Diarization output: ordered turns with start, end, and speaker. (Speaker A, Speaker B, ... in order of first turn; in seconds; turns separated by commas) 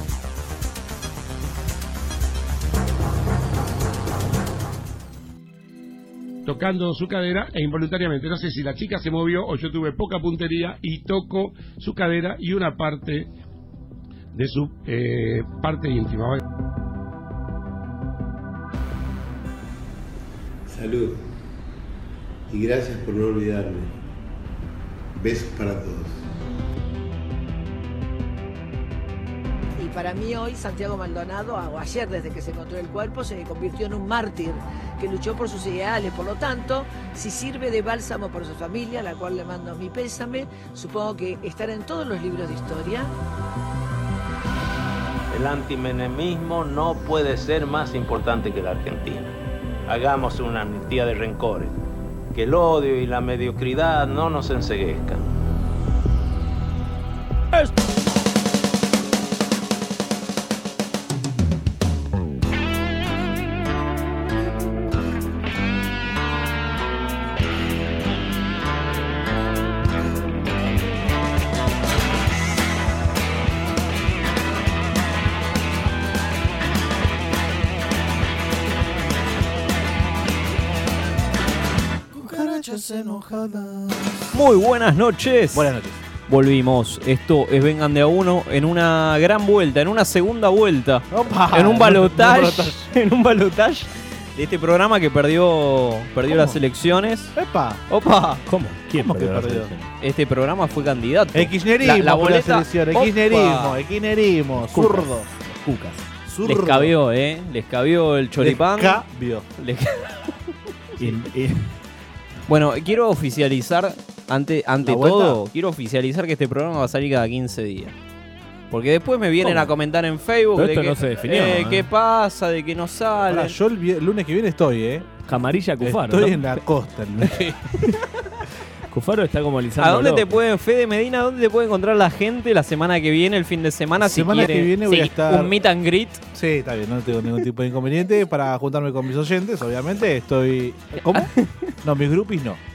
Speaker A: 6.5-13.3, Speaker A: 14.3-16.4, Speaker B: 20.7-21.2, Speaker B: 22.5-23.9, Speaker B: 25.1-26.2, Speaker C: 29.8-43.1, Speaker D: 45.3-49.3, Speaker D: 49.9-51.8, Speaker D: 52.3-55.2, Speaker E: 82.1-84.2, Speaker F: 84.3-85.7, Speaker E: 85.5-86.0, Speaker F: 86.3-97.3, Speaker E: 91.1-92.9, Speaker E: 96.3-96.6, Speaker E: 97.3-97.8, Speaker F: 97.9-98.4, Speaker G: 98.5-99.9, Speaker E: 98.9-99.7, Speaker F: 100.0-103.8, Speaker E: 101.3-105.3, Speaker G: 104.7-106.1, Speaker E: 106.2-106.9, Speaker F: 106.4-109.0, Speaker E: 108.4-109.5, Speaker F: 109.6-110.3, Speaker G: 111.0-111.7, Speaker F: 112.5-117.9, Speaker E: 114.8-115.4, Speaker F: 118.7-123.5, Speaker G: 119.4-119.7, Speaker G: 120.5-121.9, Speaker E: 123.3-125.1, Speaker G: 125.3-126.5, Speaker E: 125.8-127.6, Speaker G: 128.9-130.4, Speaker F: 129.8-136.2, Speaker E: 134.0-135.5, Speaker E: 136.3-141.3, Speaker F: 140.9-141.7, Speaker E: 141.8-142.6